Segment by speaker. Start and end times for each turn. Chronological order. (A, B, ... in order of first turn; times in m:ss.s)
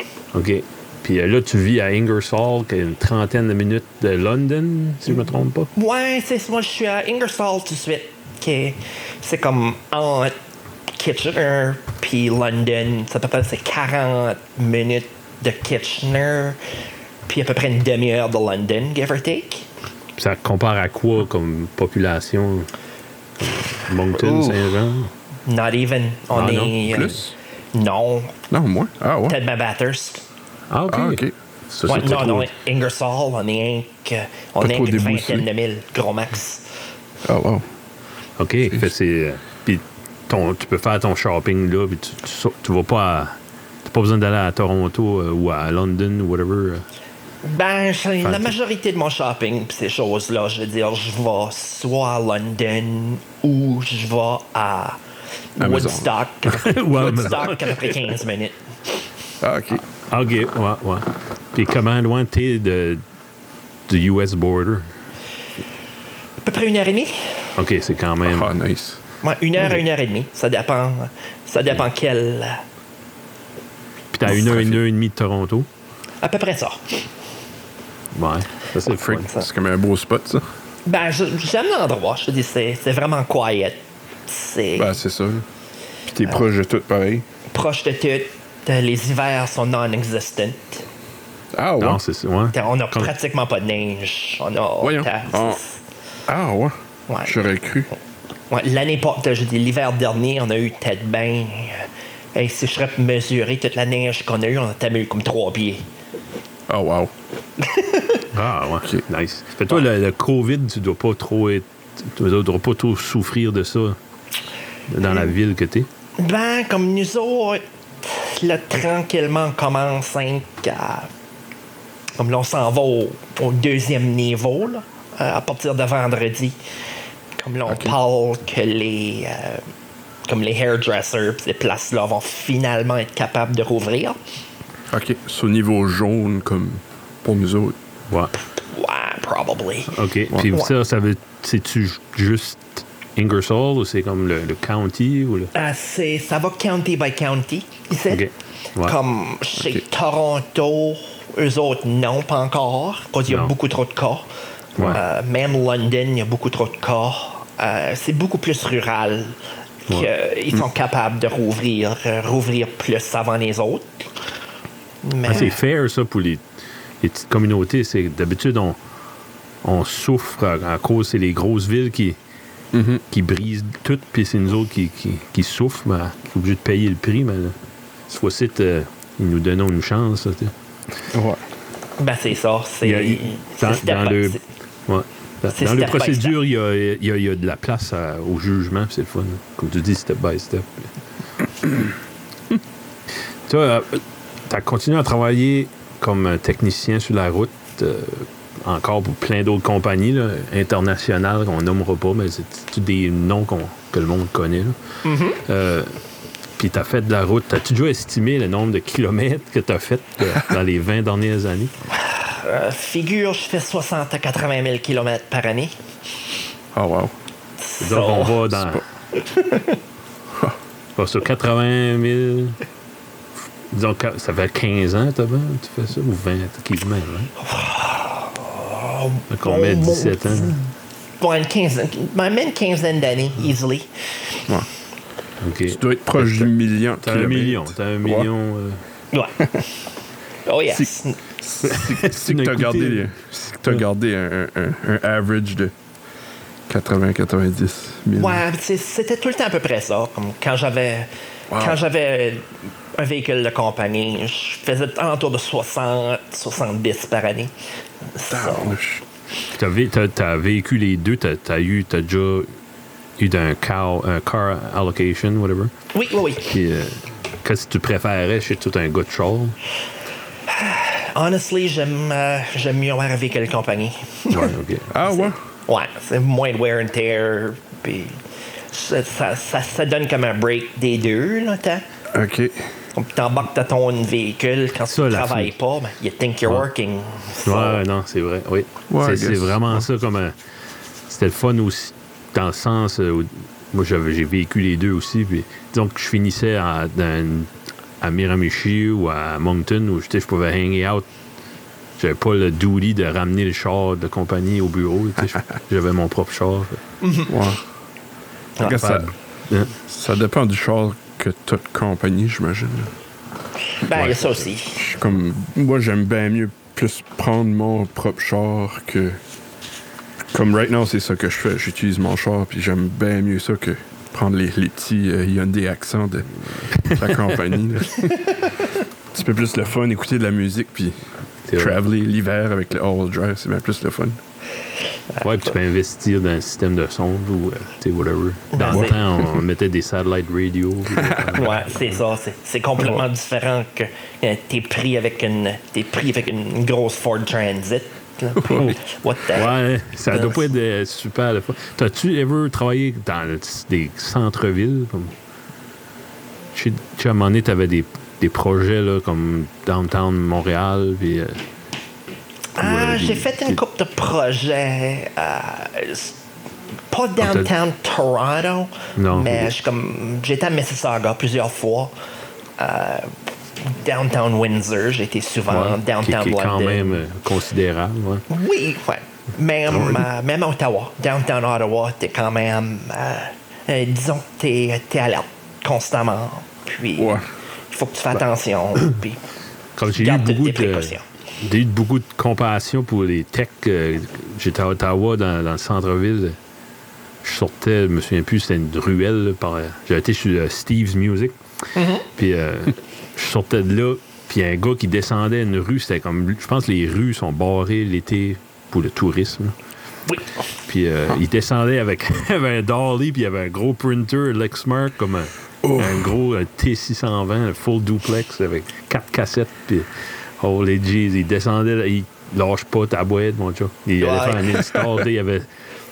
0:00.3-0:05.7 A
0:05.8-0:10.4 B
0:11.0-0:16.6 B
0:17.3-0:19.7 B
0:20.2-0:22.7 A
0:23.4-0:25.1 A
0:24.2-0:24.7 B
0:25.5-0:27.2 B
0:26.3-0:27.0 A
0:26.9-0:27.3 C
0:27.7-0:28.4 B
0:28.5-0:29.4 C
0:29.3-0:30.2 B
0:30.7-0:32.5 A
0:30.9-0:31.3 C
0:31.9-0:36.7 B
0:34.6-0:35.5 C
0:37.2-0:37.6 C
0:38.4-0:46.9 A
0:47.4-0:55.0 B
0:48.2-0:48.5 A
0:55.6-0:58.6 B
0:55.6-0:57.4 C
0:56.5-0:58.1 A
0:59.4-0:59.8 C
1:00.0-1:03.0 A
1:03.9-1:04.9 A
1:06.4-1:07.5 B
1:07.6-1:08.5 A
1:08.2-1:09.0 C
1:09.2-1:12.6 B
1:14.1-1:15.7 A
1:14.3-1:14.8 C
1:16.2-1:17.0 B
1:18.1-1:19.3 A
1:18.9-1:20.4 C
1:19.2-1:19.5 B
1:20.9-1:25.0 B
1:24.8-1:25.5 C
1:26.1-1:27.3 C
1:27.5-1:30.8 B
1:31.5-1:32.0 C
1:31.8-1:33.1 A
1:32.5-1:35.8 B
1:34.8-1:35.6 C
1:36.3-1:37.9 C
1:37.1-1:37.4 B
1:38.5-1:45.8 B
1:46.7-1:47.1 C
1:47.6-1:48.3 B
1:48.3-1:54.0 A
1:54.9-1:55.9 A
1:56.2-2:01.1 B
2:02.2-2:06.6 B
2:07.4-2:09.6 B
2:07.7-2:07.9 C
2:10.3-2:14.2 B
2:14.9-2:17.8 C
2:18.6-2:19.9 B
2:19.9-2:25.5 A
2:25.5-2:28.3 B
2:28.1-2:29.0 A
2:28.8-2:44.1 B
2:33.3-2:33.5 A
2:45.0-2:45.6 B
2:45.3-2:46.4 A
2:47.0-2:48.8 A
2:49.6-2:52.2 A
2:52.7-2:53.0 C
2:53.1-2:57.6 A
2:58.1-3:00.5 A
3:01.1-3:01.4 C
3:02.0-3:04.4 B
3:02.8-3:10.9 A
3:05.5-3:06.4 B
3:13.5-3:24.8 A
3:25.0-3:25.4 B
3:25.4-3:26.0 A
3:26.6-3:31.7 A
3:31.9-3:35.7 B
3:36.7-3:37.1 C
3:37.6-3:38.5 B
3:37.8-3:38.8 A
3:39.2-3:39.8 B
3:41.0-3:42.6 A
3:43.7-3:47.3 A
3:47.4-3:50.7 B
3:49.3-3:50.6 A
3:51.2-3:53.9 B
3:55.4-3:58.8 A
3:55.7-3:58.3 C
3:59.1-3:59.7 B
4:00.5-4:01.2 B
4:00.7-4:05.7 C
4:01.6-4:03.1 A
4:06.7-4:08.4 C
4:08.2-4:17.5 B
4:11.5-4:11.8 C
4:18.1-4:18.8 B
4:18.3-4:19.0 C
4:19.5-4:22.5 A
4:23.2-4:25.7 A
4:25.9-4:26.5 B
4:26.4-4:29.6 A
4:30.5-4:41.8 B
4:34.3-4:34.9 A
4:34.9-4:35.4 C
4:42.1-4:42.7 C
4:43.0-4:47.8 B
4:44.9-4:45.5 A
4:47.4-4:50.4 A
4:48.9-4:49.9 C
4:51.1-4:57.5 A
4:58.0-5:01.1 A
5:02.0-5:06.8 A
5:07.0-5:07.3 B
5:07.3-5:07.6 C
5:08.6-5:09.1 C
5:08.6-5:09.7 A
5:09.9-5:12.9 C
5:13.8-5:14.9 B
5:13.9-5:14.3 A
5:14.8-5:19.2 C
5:20.3-5:28.5 C
5:26.7-5:27.4 A
5:28.0-5:28.7 B
5:29.1-5:34.2 C
5:31.5-5:31.8 A
5:35.2-5:42.0 A
5:38.5-5:39.0 B
5:40.9-5:41.4 C
5:41.3-5:50.5 B
5:48.4-5:48.8 C
5:48.5-5:48.8 A
5:49.3-5:55.2 A
5:56.5-6:01.4 A
6:02.6-6:06.2 B
6:02.6-6:03.6 A
6:06.9-6:11.9 B
6:07.2-6:07.5 A
6:09.0-6:09.5 A
6:12.6-6:17.0 B
6:15.5-6:18.2 A
6:18.3-6:29.2 B
6:19.7-6:20.0 C
6:27.0-6:27.3 C
6:29.8-6:36.4 A
6:29.9-6:31.0 B
6:37.2-6:41.4 A
6:41.8-6:42.1 B
6:42.1-6:49.6 A
6:50.7-7:05.5 A
6:55.6-6:56.1 C
7:04.0-7:04.6 B